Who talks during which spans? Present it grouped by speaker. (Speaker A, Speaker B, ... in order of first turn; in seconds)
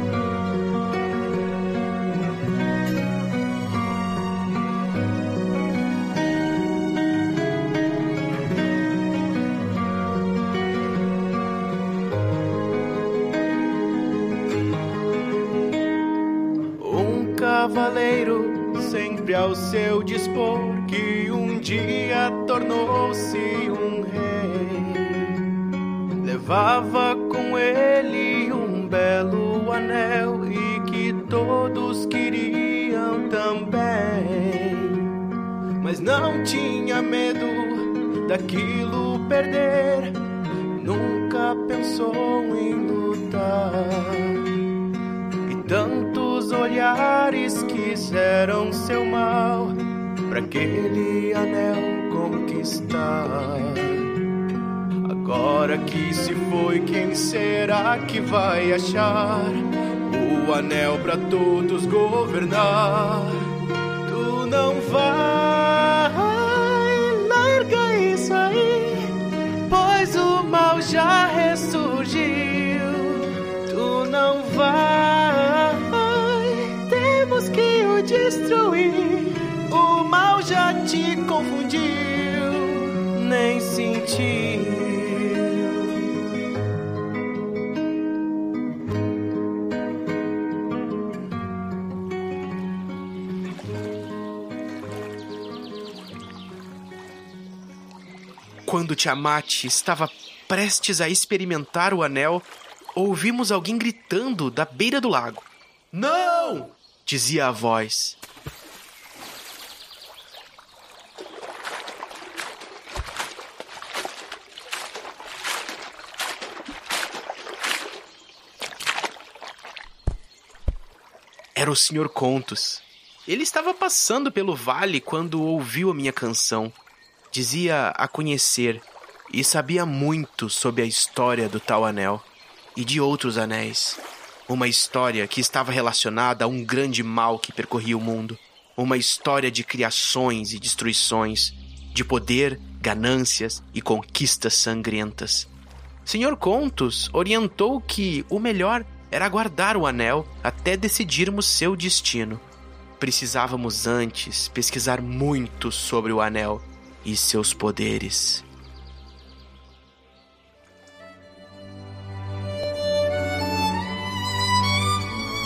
Speaker A: 16.8-25.4, 26.2-35.0, 35.8-40.2, 40.8-44.4, 45.5-54.1, 55.0-63.5, 64.1-69.2, 69.7-86.0, 98.7-108.2, 121.6-126.8, 127.3-145.5, 146.1-152.4, 153.0-158.4